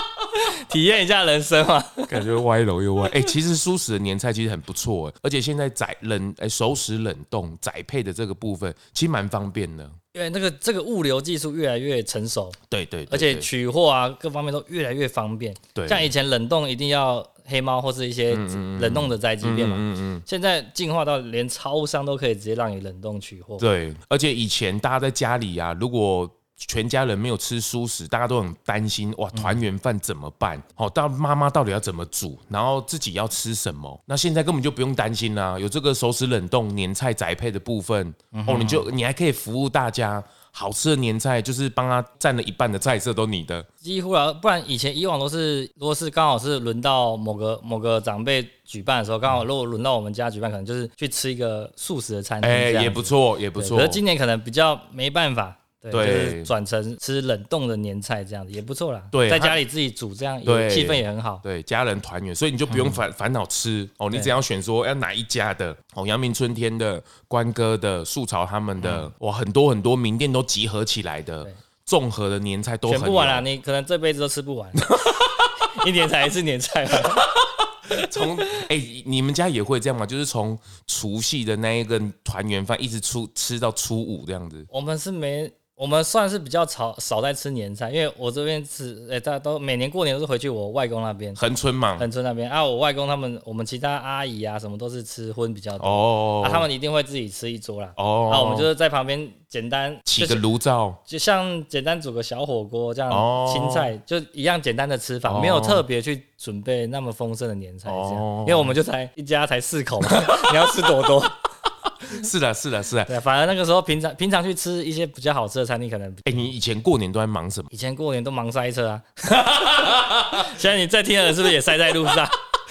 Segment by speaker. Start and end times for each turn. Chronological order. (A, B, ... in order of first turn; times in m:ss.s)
0:00.3-0:02.3 A
0:02.1-0:10.0 B
0:10.1-0:12.6 A
0:12.7-0:13.5 B
0:13.1-0:23.6 A
0:15.7-0:16.1 B
0:18.3-0:20.2 B
0:23.6-0:43.7 B
0:29.3-0:29.6 A
0:38.3-0:38.8 A
0:43.8-1:01.4 A
0:52.4-0:54.0 B
0:55.9-0:56.5 B
0:59.1-0:59.6 B
1:00.4-1:13.4 B
1:02.7-1:03.0 A
1:08.8-1:09.1 A
1:12.9-1:14.9 A
1:14.8-1:15.7 B
1:15.6-1:17.3 A
1:17.1-1:24.7 B
1:17.9-1:18.6 A
1:24.7-1:31.4 A
1:31.4-1:32.0 B
1:32.0-1:40.4 A
1:35.8-1:36.7 B
1:38.0-1:38.7 B
1:40.0-1:41.0 B
1:41.1-1:51.4 A
1:43.1-1:43.9 B
1:45.2-1:45.8 B
1:47.8-1:48.7 B
1:50.1-1:50.8 B
1:52.0-1:53.1 B
1:53.1-1:56.5 A
1:56.2-1:57.7 B
1:57.7-2:02.3 A
1:59.3-2:00.4 B